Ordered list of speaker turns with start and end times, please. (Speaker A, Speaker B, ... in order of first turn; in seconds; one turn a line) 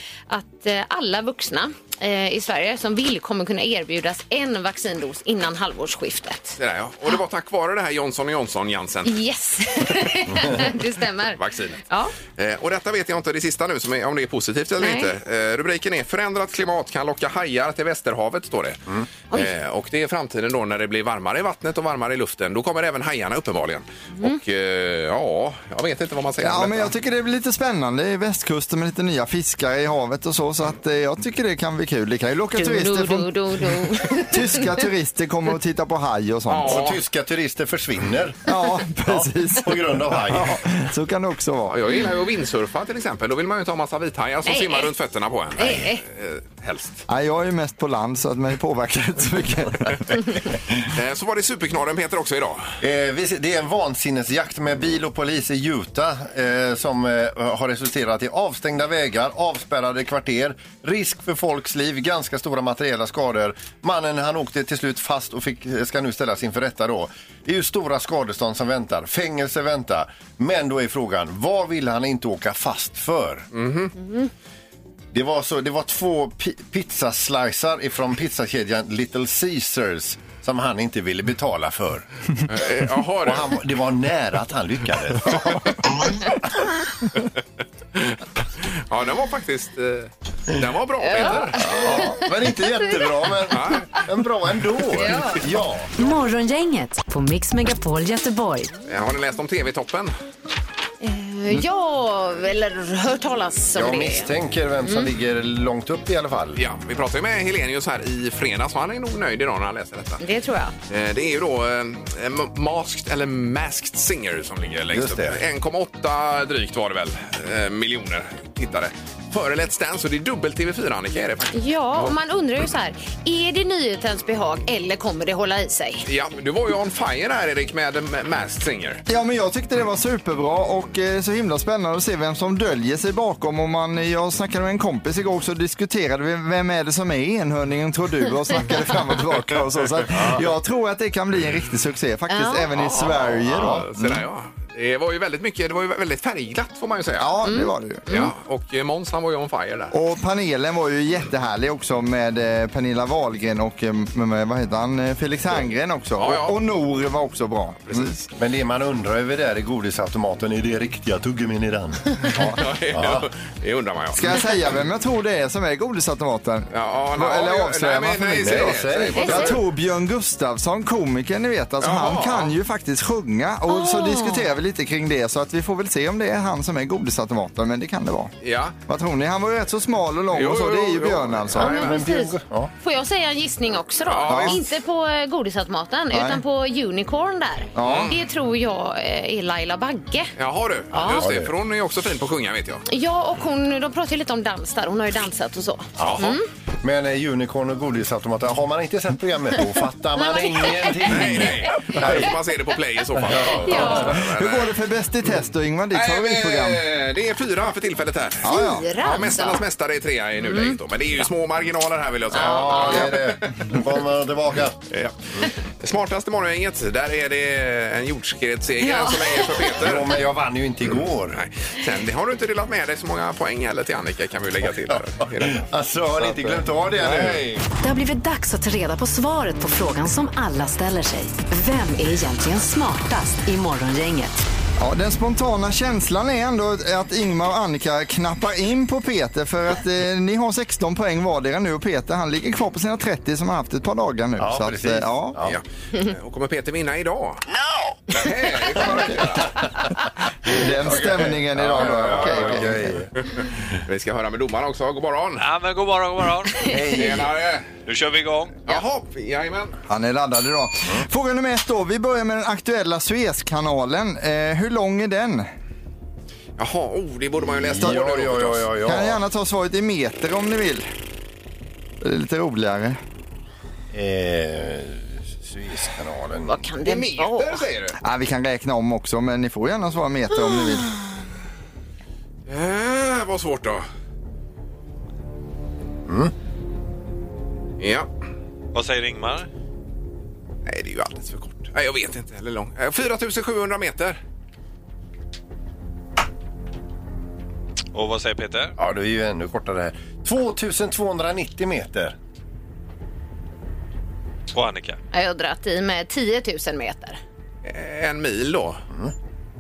Speaker A: 0.3-6.6
Speaker B: 6.6-9.2
Speaker A: 9.1-12.1
Speaker B: 11.3-26.9
Speaker A: 14.8-15.1
Speaker C: 26.4-36.9
Speaker A: 32.5-34.8
Speaker B: 36.5-37.0
Speaker D: 36.6-38.5
Speaker C: 38.5-41.8
Speaker D: 39.0-40.7
Speaker B: 41.7-47.0
Speaker A: 44.5-44.9
Speaker A: 45.6-46.0
Speaker C: 47.1-50.2
Speaker B: 50.8-52.8
Speaker D: 52.8-73.5
Speaker B: 73.5-73.9
Speaker D: 75.1-82.0
Speaker B: 82.5-83.5
Speaker D: 83.2-86.3
Speaker B: 88.0-91.9
Speaker A: 91.0-92.3
Speaker D: 91.2-95.9
Speaker B: 93.5-93.8
Speaker A: 94.9-95.4
Speaker E: 96.0-98.7
Speaker B: 98.8-100.1
Speaker A: 101.0-104.3
Speaker D: 103.7-106.6
Speaker B: 106.5-110.2
Speaker A: 110.2-110.7
Speaker B: 110.9-122.2
Speaker D: 114.9-115.4
Speaker A: 121.5-126.0
Speaker B: 126.0-129.0
Speaker C: 129.1-144.2
Speaker A: 142.3-142.7
Speaker B: 142.7-147.3
Speaker C: 147.2-148.1
Speaker A: 147.4-148.3
Speaker B: 148.1-149.9
Speaker C: 149.9-158.1
Speaker B: 156.2-156.6
Speaker B: 157.9-158.2
Speaker D: 158.4-163.3
Speaker B: 162.3-164.4
Speaker C: 164.1-178.3
Speaker B: 166.7-169.5
Speaker D: 168.4-169.6
Speaker A: 169.2-169.5
Speaker B: 171.8-172.5
Speaker A: 173.7-174.5
Speaker B: 178.4-178.7
Speaker C: 178.9-181.9
Speaker B: 180.3-182.0
Speaker A: 181.6-190.3
Speaker D: 181.6-182.7
Speaker B: 184.1-184.6
Speaker C: 184.3-184.6
Speaker C: 186.1-186.4
Speaker C: 187.8-188.1
Speaker B: 187.8-188.1
Speaker B: 190.4-192.8
Speaker A: 190.9-191.3
Speaker D: 191.2-191.5
Speaker A: 192.9-196.4
Speaker D: 196.0-202.3
Speaker B: 196.0-196.3
Speaker A: 200.2-201.5
Speaker B: 201.1-204.7
Speaker D: 203.2-204.2
Speaker A: 203.6-204.2
Speaker C: 203.8-206.8
Speaker B: 205.9-213.8
Speaker C: 208.4-208.8
Speaker A: 208.4-209.6
Speaker A: 210.4-210.8
Speaker D: 212.3-214.8
Speaker A: 212.3-213.2
Speaker B: 214.9-220.2
Speaker A: 218.8-219.7
Speaker D: 219.7-221.4
Speaker B: 221.3-225.6
Speaker D: 224.8-227.4
Speaker B: 226.2-227.6
Speaker E: 227.8-234.4
Speaker C: 234.8-245.4
Speaker D: 244.4-245.6
Speaker B: 245.4-247.4
Speaker B: 248.1-249.6
Speaker C: 250.4-252.8
Speaker B: 250.9-255.4
Speaker D: 251.5-253.1
Speaker F: 255.4-256.7
Speaker D: 256.6-257.3
Speaker B: 256.9-257.7
Speaker F: 257.9-258.6
Speaker B: 258.7-259.8
Speaker C: 259.9-265.5
Speaker B: 266.6-268.7
Speaker D: 267.4-269.2
Speaker C: 268.8-270.9
Speaker C: 272.0-273.0
Speaker D: 273.9-276.6
Speaker A: 276.4-277.6
Speaker B: 276.8-277.9
Speaker C: 278.0-280.9
Speaker B: 282.5-283.8
Speaker D: 286.1-286.3
Speaker B: 287.8-288.1
Speaker F: 288.7-289.5
Speaker B: 290.6-294.2
Speaker F: 297.9-298.7
Speaker D: 298.8-302.1
Speaker F: 304.5-305.0
Speaker A: 305.1-307.2
Speaker B: 307.6-308.8